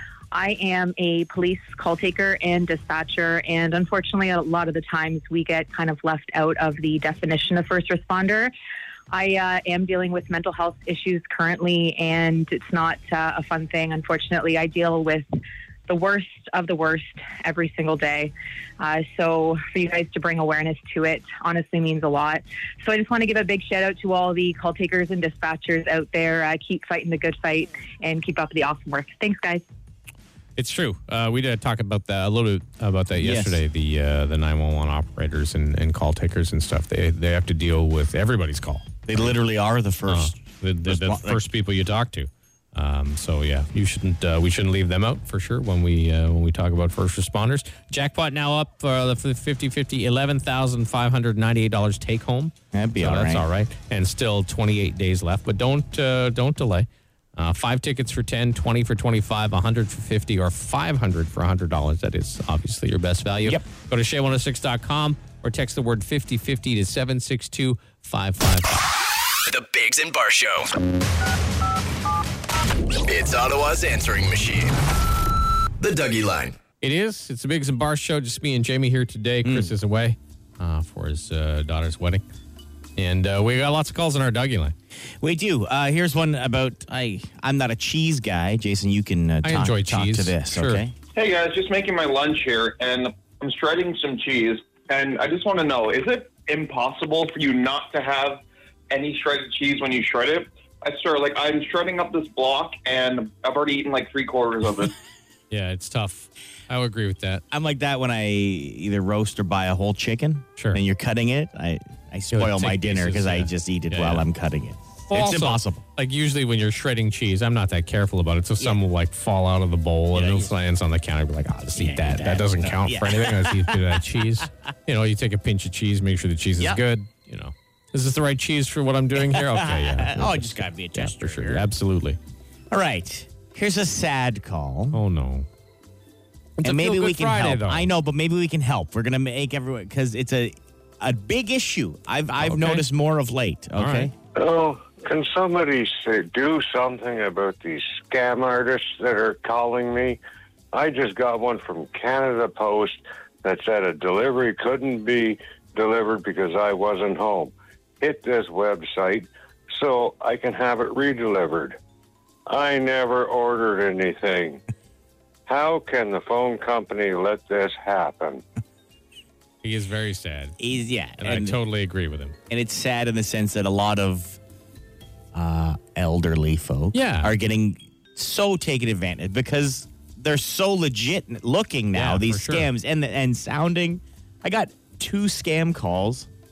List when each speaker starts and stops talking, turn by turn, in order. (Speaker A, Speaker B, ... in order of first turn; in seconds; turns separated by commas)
Speaker A: 0.3-8.5, Speaker A: 9.1-15.3, Speaker A: 15.9-29.6, Speaker B: 30.6-39.4, Speaker C: 33.2-33.6, Speaker C: 39.1-41.4, Speaker B: 40.1-68.9, Speaker C: 52.7-53.5, Speaker D: 69.5-70.7, Speaker D: 73.1-74.8, Speaker D: 75.8-76.6, Speaker B: 76.8-82.2, Speaker C: 79.4-79.7, Speaker B: 83.0-84.8, Speaker C: 85.2-90.9, Speaker B: 89.4-90.8, Speaker E: 91.2-104.9, Speaker B: 105.5-107.4, Speaker C: 107.5-115.8, Speaker B: 112.3-114.2, Speaker B: 115.1-132.2, Speaker C: 120.1-120.5, Speaker C: 121.8-124.5, Speaker C: 129.2-131.7, Speaker C: 132.7-135.0, Speaker B: 134.9-135.5, Speaker B: 136.6-137.9, Speaker C: 136.6-144.1, Speaker B: 142.4-142.9, Speaker B: 143.8-144.1, Speaker F: 144.3-150.2, Speaker F: 150.7-161.8, Speaker F: 162.5-164.6, Speaker F: 165.5-168.4, Speaker B: 169.6-170.6, Speaker C: 170.6-171.6, Speaker B: 171.2-172.4, Speaker C: 172.5-174.4, Speaker C: 175.3-186.3, Speaker B: 176.9-177.3, Speaker B: 181.9-182.7